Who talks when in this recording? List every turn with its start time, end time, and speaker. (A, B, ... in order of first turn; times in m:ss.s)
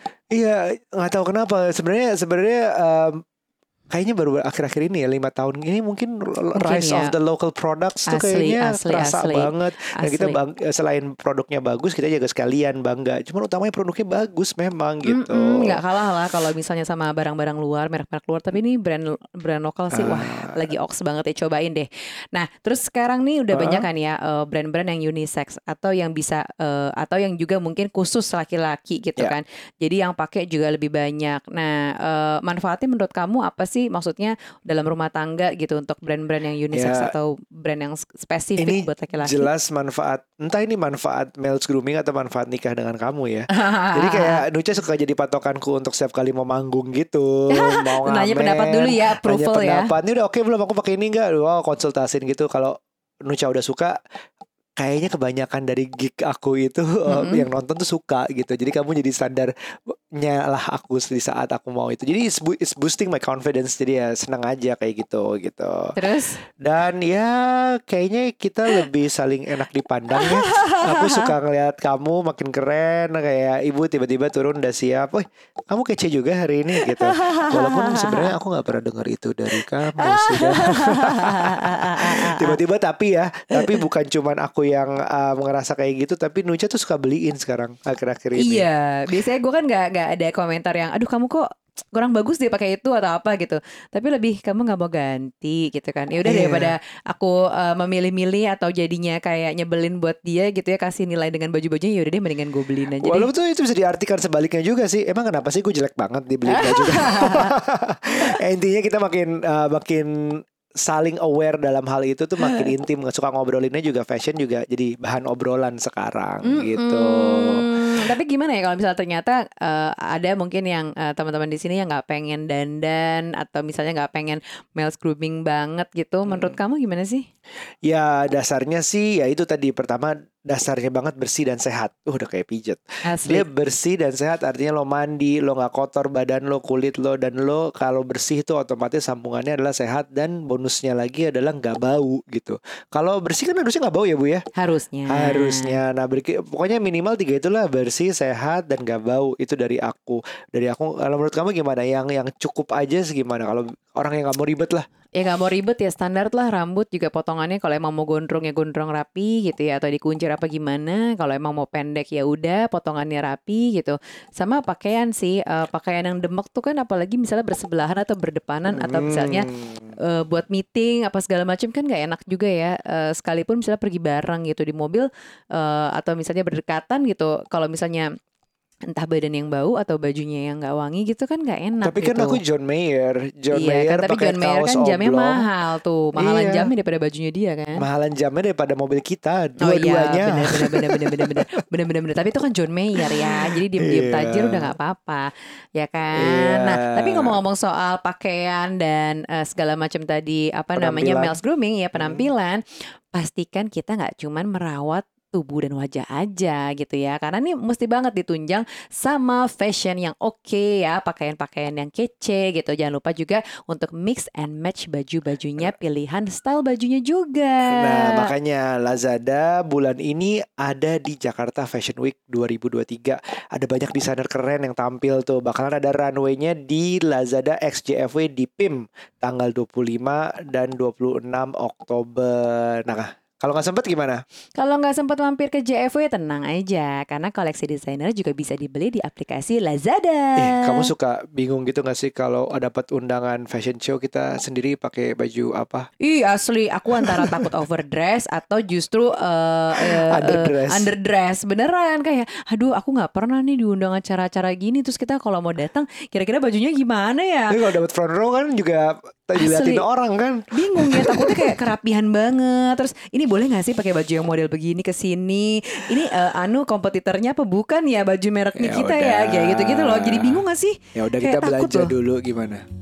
0:00.3-0:03.2 A
0:03.9-0:15.8 A
0:06.6-0:07.1 B
0:08.1-0:10.4 B
0:15.0-0:39.5 B
0:19.9-0:20.6 A
0:23.5-0:23.8 A
0:36.7-0:37.1 A
0:38.6-0:54.0 A
0:43.5-0:44.4 B
0:47.5-0:49.9 B
0:54.8-1:28.6 A
0:57.0-0:57.4 B
1:06.0-1:06.4 B
1:10.1-1:11.3 B
1:16.8-1:18.3 B
1:19.6-1:22.6 B
1:23.5-1:23.8 B
1:28.3-1:43.3 B
1:36.2-1:36.7 A
1:43.0-1:58.1 A
1:46.5-1:47.6 B
1:52.4-1:52.7 B
1:56.4-2:07.3 B
2:06.3-2:06.6 A
2:07.8-2:24.4 A
2:13.0-2:13.4 B
2:24.6-2:25.8 B
2:25.1-2:34.8 A
2:35.2-2:49.5 B
2:48.7-2:49.9 A
2:50.0-2:58.1 B
2:58.9-3:02.4 B
3:01.8-3:05.5 A
3:03.5-3:07.8 B
3:06.2-3:06.7 A
3:07.8-3:11.4 A
3:09.6-3:38.3 B
3:13.0-3:14.7 A
3:16.2-3:17.4 A
3:20.8-3:21.4 A
3:22.0-3:22.3 A
3:37.7-3:54.2 A
3:54.6-4:00.9 B
4:00.4-4:05.9 A
4:06.0-4:17.6 B
4:07.0-4:07.5 A
4:09.7-4:10.9 A
4:17.5-4:21.6 A
4:19.4-4:19.8 B
4:20.5-4:31.9 B
4:28.5-4:30.4 A
4:30.9-4:32.6 A